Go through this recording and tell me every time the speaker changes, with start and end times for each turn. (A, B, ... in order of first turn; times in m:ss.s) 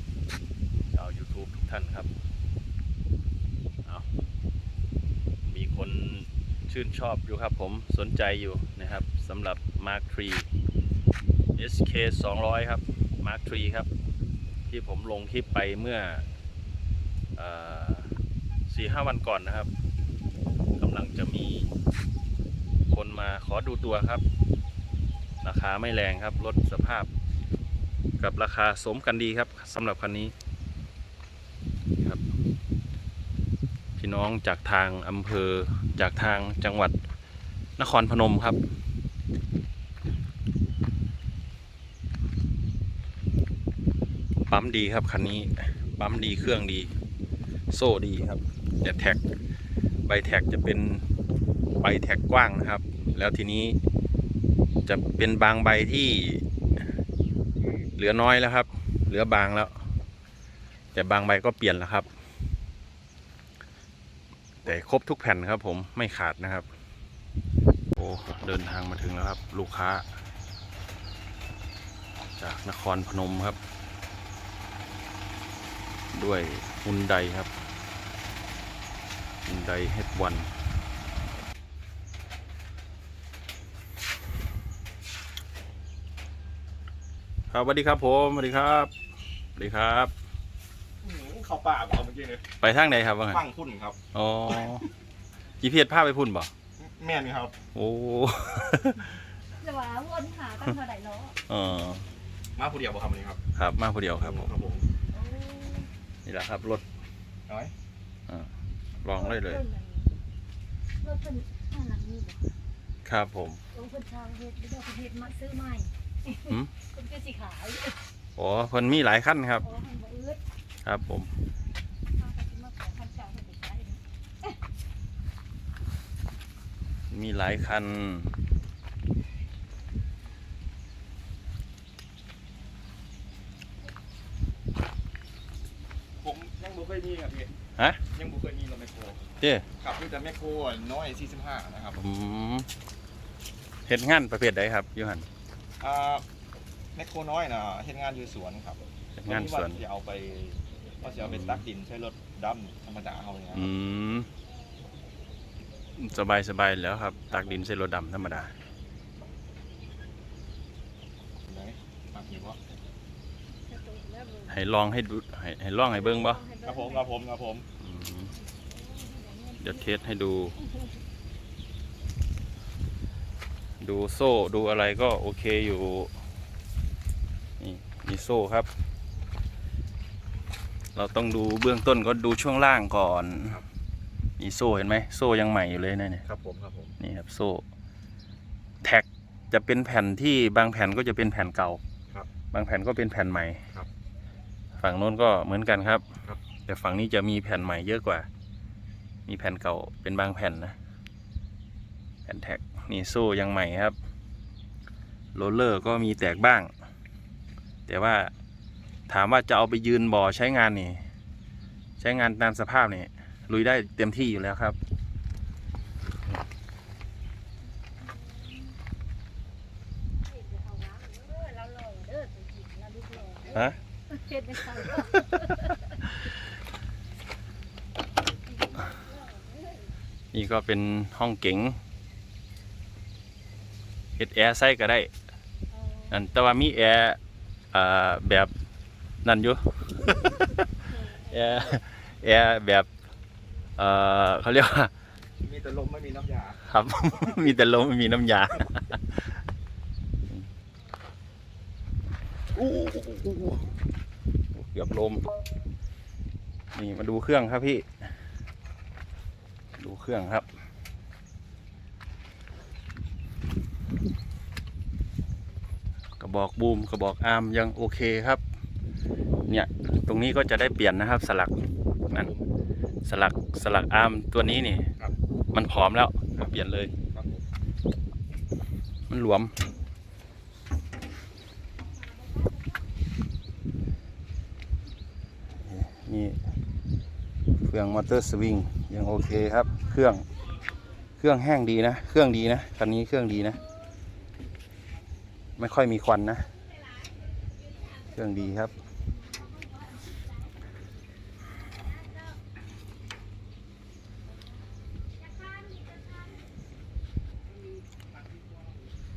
0:00.9-0:02.1 A
0:05.4-0:10.5 A
0:11.6-0:13.9 A
0:14.7-0:16.3 A
0:17.4-0:18.1 A
0:18.7-0:19.7 A
0:20.8-0:21.7 A
0:22.9-0:24.2 A
0:25.4-0:27.1 A
0:28.2-0:30.3 A
0:34.0-0:37.0 A
0:37.8-0:38.6 A
0:44.5-0:46.9 A
0:47.7-0:49.2 A
0:50.1-0:51.1 A
0:51.8-0:53.8 A
0:54.9-0:56.4 A
0:58.0-0:59.8 A
1:00.9-1:02.1 A
1:04.6-1:06.7 A
1:08.0-1:10.0 A
1:12.4-1:13.6 A
1:16.1-1:17.5 A
1:19.5-1:20.5 A
1:27.5-1:28.9 A
1:29.6-1:30.1 A
1:31.0-1:32.4 B
1:32.6-1:33.4 A
1:33.3-1:34.0 B
1:34.1-1:34.9 A
1:35.6-1:36.5 A
1:36.8-1:37.6 B
1:37.8-1:39.2 A
1:39.6-1:41.4 C
1:41.5-1:42.1 A
1:42.6-1:43.4 B
1:43.6-1:44.5 A
1:44.2-1:44.8 B
1:45.1-1:45.9 C
1:46.2-1:46.8 A
1:47.5-1:47.7 B
1:49.0-1:49.6 A
1:49.1-1:50.1 C
1:51.0-1:52.5 C
1:53.0-1:53.6 A
1:53.7-1:58.0 C
1:58.4-1:59.6 A
1:59.6-2:00.4 C
2:00.8-2:01.3 A
2:02.2-2:04.5 C
2:07.1-2:08.3 A
2:16.2-2:17.5 B
2:18.1-2:19.2 B
2:19.4-2:19.7 A
2:19.8-2:22.0 B
2:22.0-2:22.7 A
2:23.9-2:25.3 A
2:25.8-2:26.2 B
2:27.0-2:33.7 B
2:29.2-2:29.8 A
2:31.2-2:31.6 A
2:33.5-2:34.3 A
2:36.0-2:38.5 A
2:41.5-2:42.6 B
2:43.6-2:44.5 C
2:44.5-2:46.4 A
2:45.9-2:47.1 C
2:46.6-2:47.7 B
2:47.8-2:48.3 A
2:48.4-2:50.0 C
2:49.6-2:50.6 A
2:50.6-2:50.9 C
2:53.8-2:56.1 A
2:57.6-2:58.7 A
3:01.0-3:03.6 A
3:04.4-3:06.3 A
3:06.3-3:07.0 B
3:07.0-3:07.6 A
3:08.8-3:11.8 A
3:12.5-3:13.7 A
3:14.8-3:16.1 A
3:16.6-3:18.3 A
3:19.3-3:20.8 A
3:22.3-3:24.0 A
3:25.4-3:26.7 A
3:27.9-3:28.3 A
3:29.1-3:31.0 A
3:32.0-3:34.8 A
3:38.1-3:38.7 C
3:40.2-3:46.0 C
3:43.5-3:43.8 A
3:45.1-3:45.4 A
3:48.6-3:49.9 C
3:50.3-3:51.8 A
3:54.2-3:55.1 A
3:55.7-3:56.2 C
3:56.1-3:57.2 A
3:57.7-3:58.5 A
3:59.2-4:00.1 A
4:00.9-4:01.8 C
4:01.3-4:02.9 A
4:03.8-4:04.9 A
4:05.4-4:06.6 B
4:06.6-4:09.3 A
4:13.1-4:13.5 B
4:14.5-4:15.3 A
4:16.7-4:17.9 A
4:19.8-4:20.5 A
4:26.2-4:28.4 A
4:29.5-4:31.6 A
4:32.1-4:32.5 B
4:33.1-4:34.9 A
4:35.5-4:36.9 A
4:37.1-4:37.4 B
4:39.1-4:39.5 A
4:45.6-4:46.4 A
4:47.6-4:50.3 A
4:51.2-4:53.6 A
4:55.6-4:56.5 A
4:58.1-4:58.7 A
5:05.3-5:06.2 C